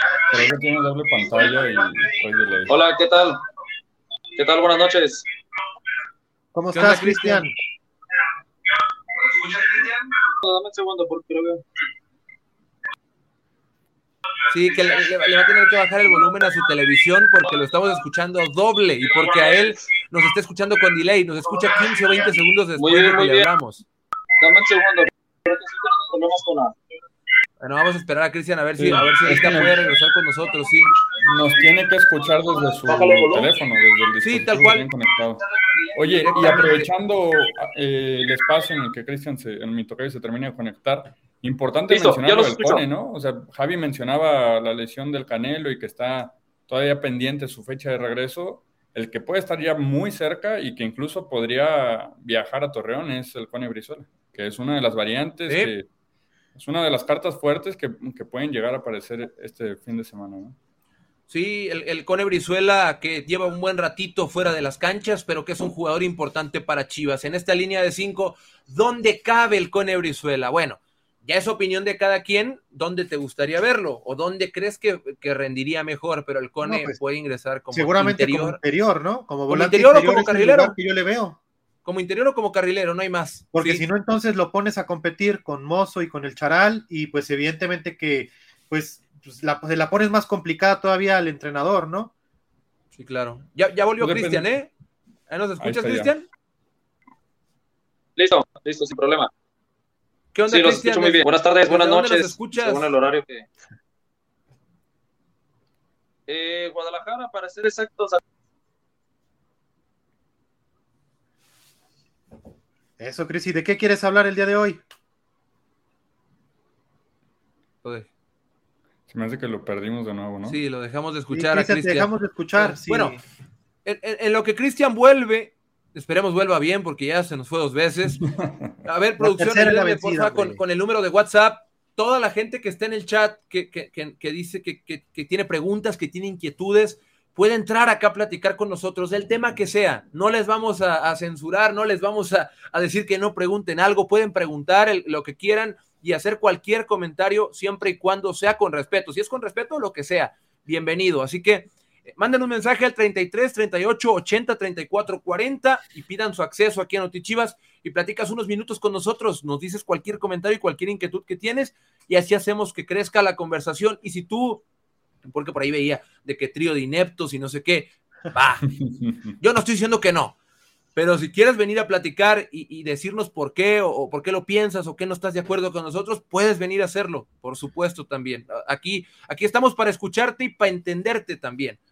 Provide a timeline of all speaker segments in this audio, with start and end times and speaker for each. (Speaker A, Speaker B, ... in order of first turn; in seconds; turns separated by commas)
Speaker A: 0.3-2.8, Speaker B: 2.7-3.4, Speaker B: 4.3-5.2, Speaker C: 6.5-7.5, Speaker D: 6.7-7.5, Speaker B: 10.4-11.6, Speaker D: 14.5-23.8, Speaker B: 22.8-23.4, Speaker B: 24.4-26.7, Speaker D: 27.6-30.9, Speaker A: 28.8-29.9, Speaker A: 31.2-55.9, Speaker B: 32.9-33.4, Speaker D: 34.2-34.9, Speaker D: 36.1-36.8, Speaker B: 41.9-42.8, Speaker D: 55.5-55.7, Speaker A: 56.5-60.5, Speaker D: 61.3-78.6, Speaker C: 76.6-77.0, Speaker C: 77.7-81.4, Speaker D: 79.5-80.8, Speaker D: 81.8-83.8, Speaker C: 83.5-92.1, Speaker D: 92.9-94.7, Speaker A: 94.0-94.5, Speaker D: 95.3-96.3, Speaker A: 95.6-96.1, Speaker B: 98.2-99.3, Speaker D: 100.3-103.0, Speaker B: 100.5-103.5, Speaker B: 106.3-108.2, Speaker C: 113.0-114.8, Speaker D: 117.8-118.1, Speaker A: 119.1-120.6, Speaker D: 120.4-123.2, Speaker C: 121.3-123.2, Speaker D: 123.8-128.2, Speaker D: 128.8-164.6, Speaker C: 129.2-130.6, Speaker D: 165.2-168.7, Speaker A: 168.8-169.2, Speaker D: 169.4-170.3, Speaker D: 170.9-181.8